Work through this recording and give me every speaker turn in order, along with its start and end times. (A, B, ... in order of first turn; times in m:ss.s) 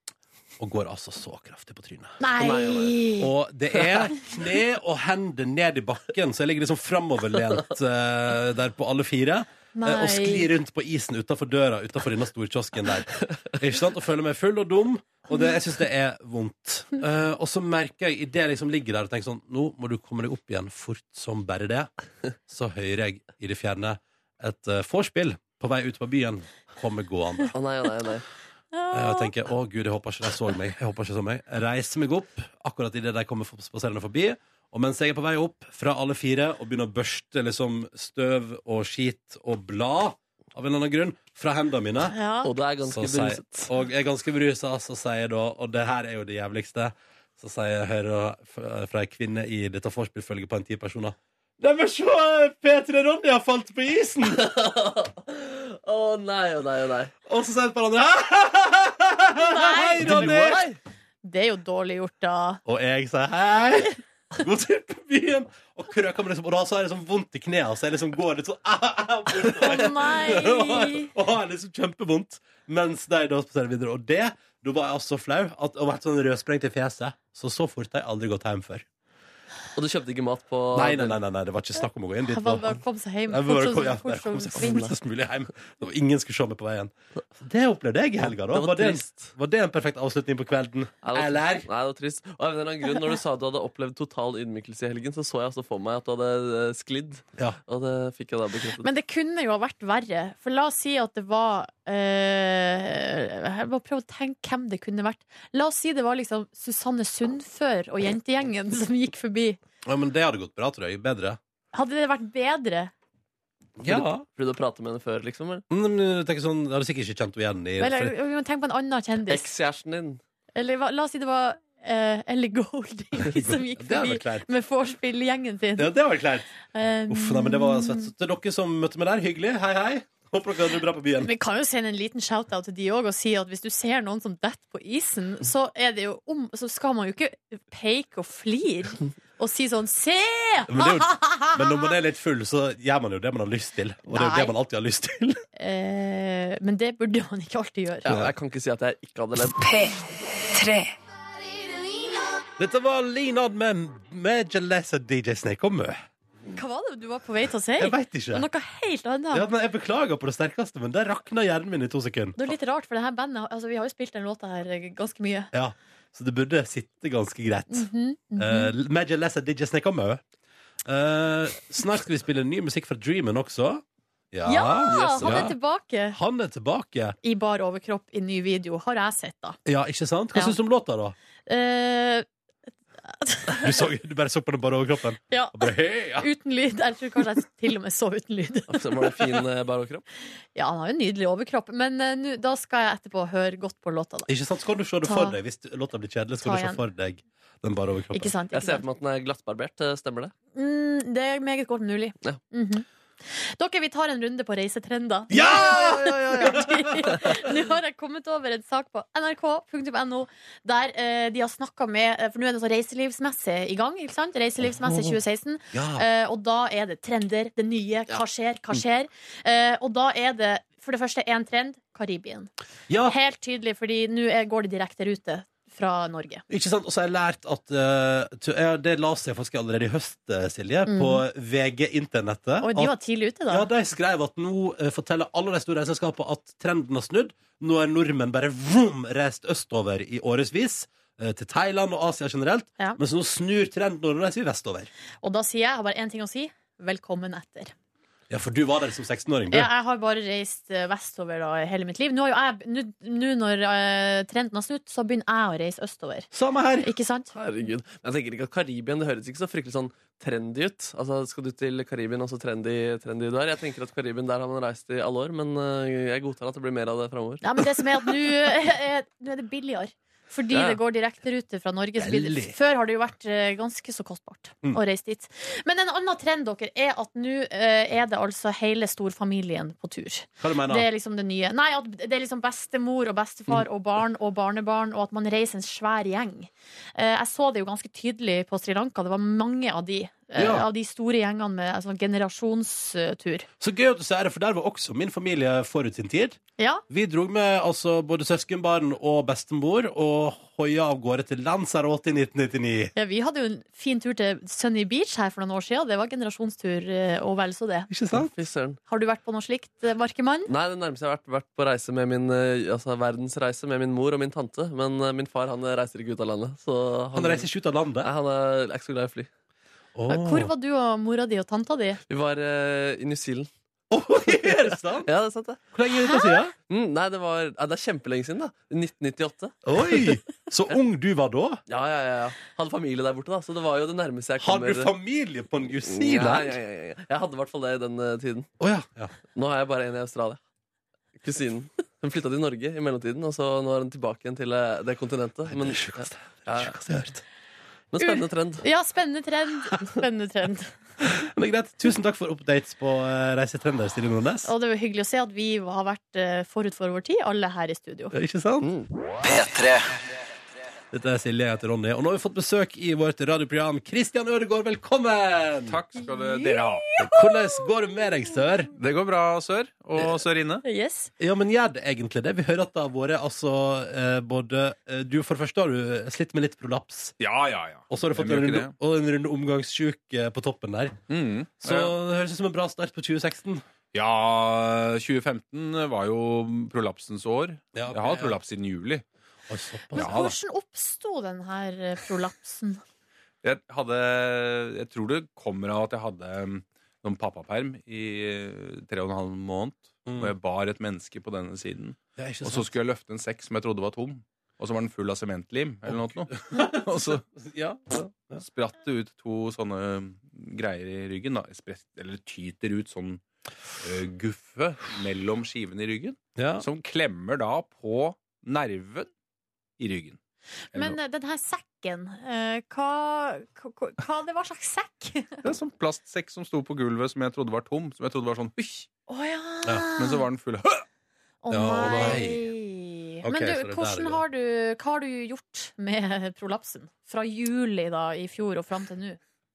0:00.6-0:02.2 A
0:02.2-0:03.3 B
0:02.4-0:03.0 C
0:03.2-0:21.9 A
0:03.7-0:04.0 C
0:09.7-0:10.5 B
0:22.5-0:27.6 A
0:27.5-0:28.2 C
0:28.7-0:29.3 B
0:28.9-0:42.1 A
0:42.0-0:42.5 B
0:42.4-0:43.7 C
0:42.8-0:54.4 A
0:54.2-0:57.1 C
0:57.2-1:00.6 A
0:59.3-1:00.3 B
1:00.0-1:00.8 C
1:01.2-1:02.6 B
1:02.6-1:18.8 A
1:09.6-1:11.1 B
1:19.7-1:21.2 C
1:20.7-1:31.7 A
1:22.3-1:24.9 B
1:28.3-1:29.3 C
1:31.0-1:38.8 C
1:38.8-1:49.6 B
1:49.8-1:51.4 A
1:51.7-1:52.9 B
1:53.8-1:55.6 C
1:53.8-1:54.2 A
1:55.7-1:58.1 A
1:57.8-1:59.5 B
1:59.3-2:00.2 C
2:00.6-2:05.9 B
2:03.2-2:04.5 A
2:05.8-2:06.5 A
2:06.7-2:08.1 B
2:07.1-2:11.3 A
2:11.2-2:21.7 B
2:20.7-2:25.4 A
2:24.1-2:24.5 B
2:25.6-2:28.1 B
2:28.0-2:29.6 C
2:28.1-2:28.3 A
2:29.5-2:30.9 D
2:32.6-2:36.0 A
2:36.5-2:39.5 B
2:37.8-2:38.4 A
2:39.3-2:42.5 A
2:42.4-2:45.5 B
2:45.5-2:50.2 A
2:47.7-2:48.7 B
2:50.8-2:55.5 A
2:54.4-2:56.2 B
2:54.9-2:55.4 C
2:56.1-2:57.2 A
2:57.2-2:59.6 B
2:59.6-3:01.2 A
3:01.5-3:02.2 B
3:03.1-3:03.7 B
3:03.6-3:06.3 A
3:05.3-3:08.9 B
3:08.7-3:10.0 C
3:10.5-3:14.3 B
3:14.3-3:18.3 A
3:15.0-3:15.4 B
3:16.4-3:16.8 B
3:18.1-3:18.8 B
3:18.5-3:20.3 C
3:20.5-3:42.5 B
3:25.3-3:27.5 A
3:34.8-3:35.1 A
3:35.7-3:36.0 A
3:42.9-3:43.2 A
3:43.0-3:46.4 B
3:46.5-3:52.9 A
3:50.8-3:51.2 B
3:52.6-3:53.7 B
3:53.5-4:04.9 A
4:05.2-4:07.7 B
4:08.3-4:09.7 A
4:09.5-4:16.3 B
4:16.3-4:16.9 A
4:16.8-4:17.3 B
4:17.3-4:27.6 C
4:27.4-4:53.5 B
4:30.5-4:30.8 C
4:32.0-4:32.6 A
4:40.4-4:40.9 A
4:50.3-4:50.6 A
4:53.6-5:02.9 A
4:56.6-4:56.8 B
5:03.0-5:07.9 B
5:07.9-5:08.3 A
5:08.1-5:08.8 C
5:08.9-5:10.5 B
5:10.5-5:17.5 C
5:17.1-5:18.1 A
5:18.0-5:19.3 C
5:19.9-5:20.5 A
5:20.1-5:22.0 B
5:22.1-5:23.5 C
5:23.9-5:25.1 A
5:24.3-5:25.6 C
5:25.7-5:26.5 A
5:26.7-5:30.1 C
5:29.6-5:31.6 A
5:31.7-5:34.9 C
5:34.4-5:36.6 A
5:35.9-5:38.5 C
5:38.6-5:39.1 A
5:39.3-5:40.4 C
5:41.2-5:46.7 C
5:45.5-5:47.2 A
5:47.9-5:48.6 C
5:48.0-5:50.8 B
5:51.0-5:54.5 A
5:54.4-5:58.1 B
5:58.1-5:58.7 A
5:59.2-6:00.0 D
6:00.9-6:05.8 A
6:05.6-6:07.0 E
6:06.0-6:07.6 B
6:07.0-6:08.7 A
6:08.7-6:10.6 E
6:10.6-6:11.1 B
6:11.2-6:17.2 A
6:17.2-6:18.7 E
6:17.9-6:21.0 A
6:21.1-6:22.0 E
6:21.6-6:23.6 A
6:23.9-6:29.0 E
6:27.7-6:28.3 A
6:29.5-6:30.1 A
6:29.9-6:32.8 B
6:30.0-6:30.3 E
6:33.4-6:47.2 E
6:40.1-6:40.3 A
6:42.2-6:42.7 A
6:45.9-6:48.4 A
6:48.4-6:53.2 E
6:53.8-6:59.1 E
6:56.4-6:56.6 A
6:59.8-7:00.2 E
7:00.7-7:05.4 B
7:05.4-7:08.9 E
7:09.1-7:10.3 B
7:10.0-7:10.8 E
7:11.4-7:19.2 B
7:11.5-7:12.4 A
7:13.2-7:14.2 A